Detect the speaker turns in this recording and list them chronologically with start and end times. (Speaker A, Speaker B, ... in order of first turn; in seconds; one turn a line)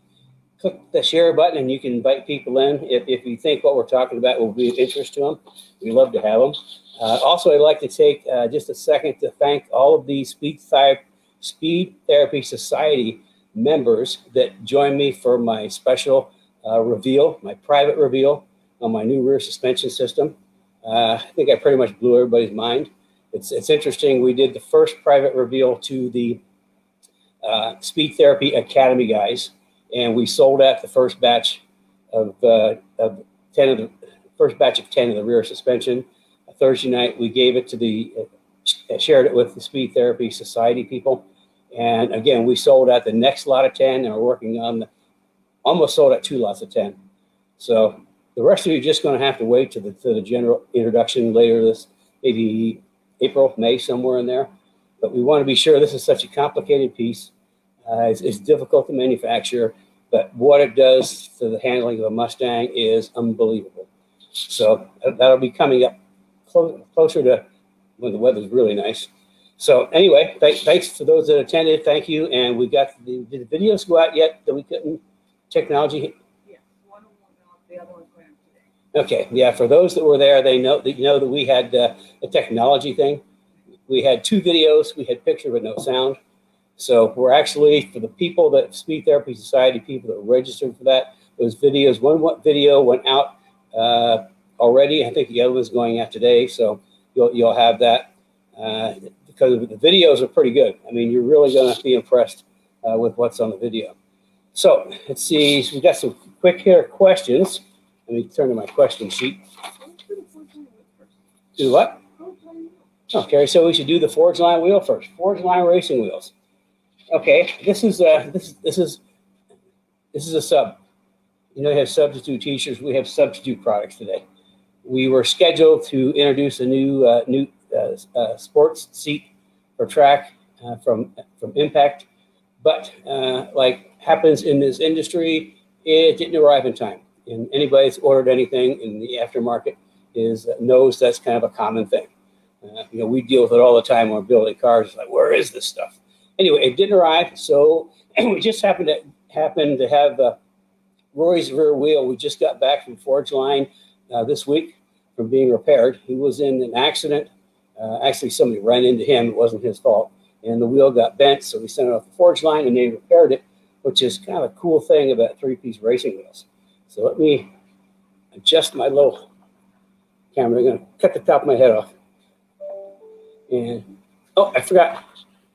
Speaker A: 0.6-26.4
Speaker A: 27.4-44.9
Speaker A: 45.6-47.0
Speaker A: 47.6-57.3
Speaker A: 57.9-63.9
Speaker A: 64.4-67.4
Speaker A: 68.0-76.1
Speaker B: 76.5-78.7
Speaker A: 78.9-83.2
Speaker A: 83.9-86.2
Speaker A: 86.8-104.0
Speaker A: 104.5-109.4
Speaker B: 109.8-111.1
Speaker A: 111.6-112.0
Speaker B: 112.2-112.7
Speaker A: 113.1-116.3
Speaker A: 117.1-119.0
Speaker A: 120.1-120.8
Speaker A: 121.5-124.2
Speaker A: 124.8-129.3
Speaker A: 129.8-132.1
Speaker A: 132.6-142.1
Speaker A: 142.7-150.3
Speaker A: 151.1-167.5
Speaker A: 168.3-169.2
Speaker A: 170.3-171.9
Speaker A: 173.5-175.0